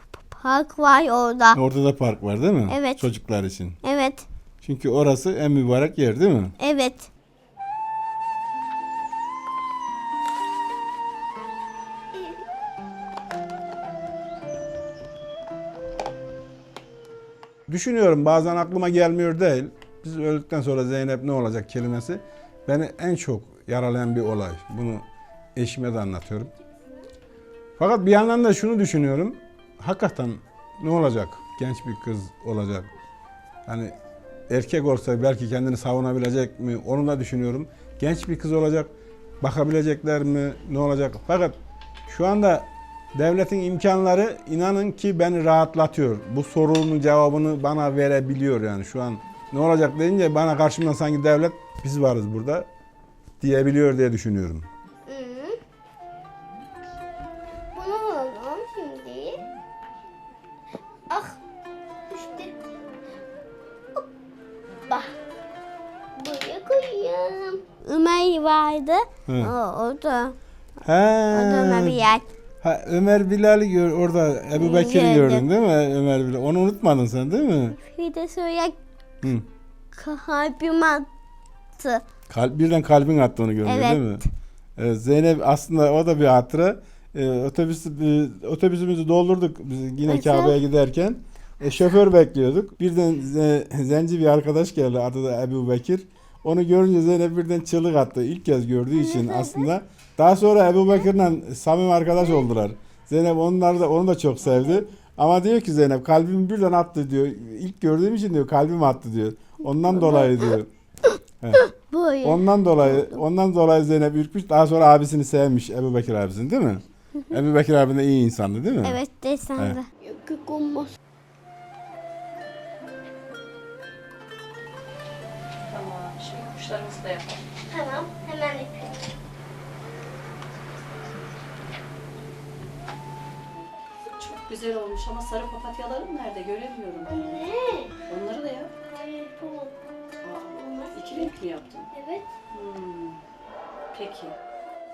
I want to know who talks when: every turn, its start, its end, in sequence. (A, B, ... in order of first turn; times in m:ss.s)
0:00.3-0:01.6 A
0:01.5-0:03.8 B
0:02.7-0:03.0 A
0:03.8-0:04.2 A
0:04.6-0:06.5 B
0:06.6-0:07.1 A
0:17.7-0:25.0 B
0:25.6-0:26.5 B
0:27.8-0:32.9 B
0:33.7-0:33.9 B
0:34.5-0:41.6 B
0:42.1-0:52.7 B
0:53.4-0:54.7 B
0:55.1-0:55.6 A
0:57.7-0:59.4 A
1:01.1-1:01.4 A
1:02.1-1:02.6 A
1:04.9-1:05.1 A
1:06.2-1:10.4 A
1:09.3-1:09.5 B
1:10.8-1:12.0 B
1:11.3-1:12.2 A
1:12.6-1:17.8 B
1:14.6-1:15.4 A
1:17.8-1:18.8 A
1:19.9-1:21.1 A
1:21.8-1:22.0 A
1:22.3-1:24.2 B
1:23.6-1:24.0 A
1:24.8-1:50.7 B
1:30.1-1:30.6 A
1:39.0-1:39.7 A
1:49.9-1:50.5 A
1:51.0-1:53.2 A
1:52.2-1:59.0 B
1:58.8-2:01.0 A
2:05.7-2:07.4 C
2:07.7-2:09.0 A
2:13.5-2:17.4 C
2:17.1-2:17.9 A
2:18.1-2:18.7 C
2:18.9-2:19.7 A
2:20.2-2:21.9 C
2:20.6-2:21.2 A
2:21.9-2:22.3 A
2:22.5-2:23.2 C
2:23.9-2:24.4 C